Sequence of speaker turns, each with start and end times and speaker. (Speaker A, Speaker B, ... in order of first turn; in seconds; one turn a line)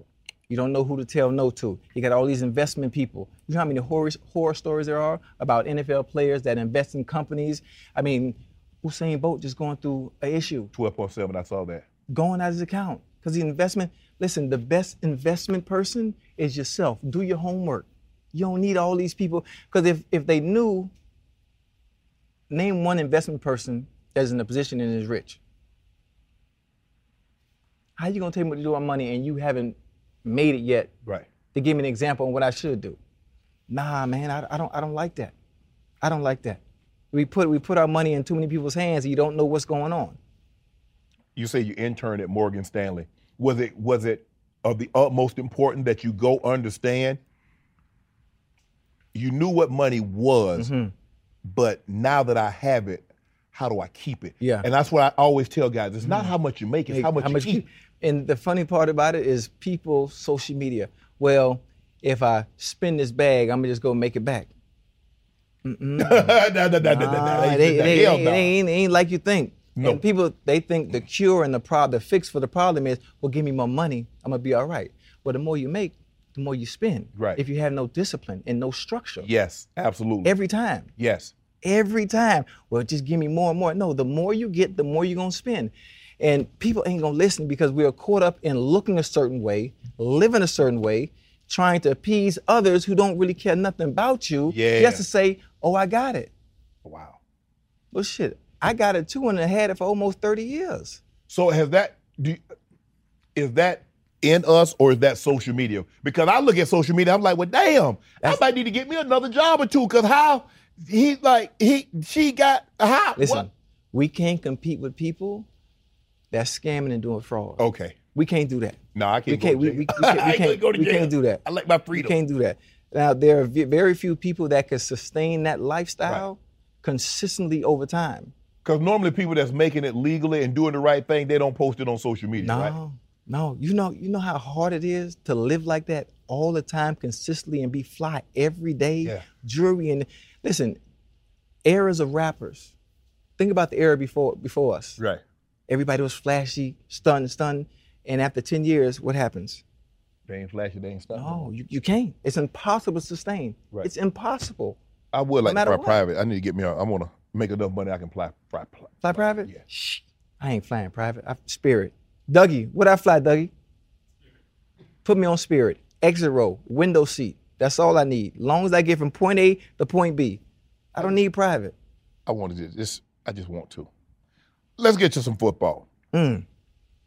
Speaker A: 0.5-10.7
Speaker B: 10.7-11.8
Speaker A: 12.1-20.9
Speaker A: 22.5-25.4
Speaker A: 28.0-30.9
Speaker A: 31.5-33.0
Speaker A: 33.7-35.3
Speaker A: 36.0-36.6
Speaker A: 37.1-40.2
Speaker B: 41.3-47.2
Speaker B: 49.1-50.7
Speaker A: 50.6-50.9
Speaker B: 51.4-57.6
Speaker A: 54.4-54.6
Speaker A: 56.0-56.3
Speaker A: 56.9-64.5
Speaker A: 65.6-79.3
Speaker B: 66.0-68.5
Speaker B: 69.8-70.0
Speaker B: 77.1-77.4
Speaker B: 79.2-80.3
Speaker A: 80.2-80.9
Speaker B: 81.0-81.3
Speaker A: 81.6-96.3
Speaker B: 94.5-95.0
Speaker B: 96.8-97.2
Speaker A: 97.9-101.0
Speaker B: 101.3-102.4
Speaker B: 103.3-113.5
Speaker A: 113.2-115.5
Speaker A: 116.3-117.6
Speaker B: 117.6-118.0
Speaker A: 118.1-128.3
Speaker B: 118.9-122.1
Speaker B: 128.6-132.7
Speaker A: 132.4-140.8
Speaker A: 141.6-142.7
Speaker A: 143.4-145.0
Speaker A: 145.7-149.6
Speaker B: 150.3-151.5
Speaker A: 151.1-154.8
Speaker B: 155.1-159.6
Speaker A: 155.4-156.0
Speaker A: 159.0-163.5
Speaker A: 165.0-170.4
Speaker A: 170.9-171.7
Speaker B: 172.2-173.9
Speaker B: 174.8-175.9
Speaker A: 176.1-176.4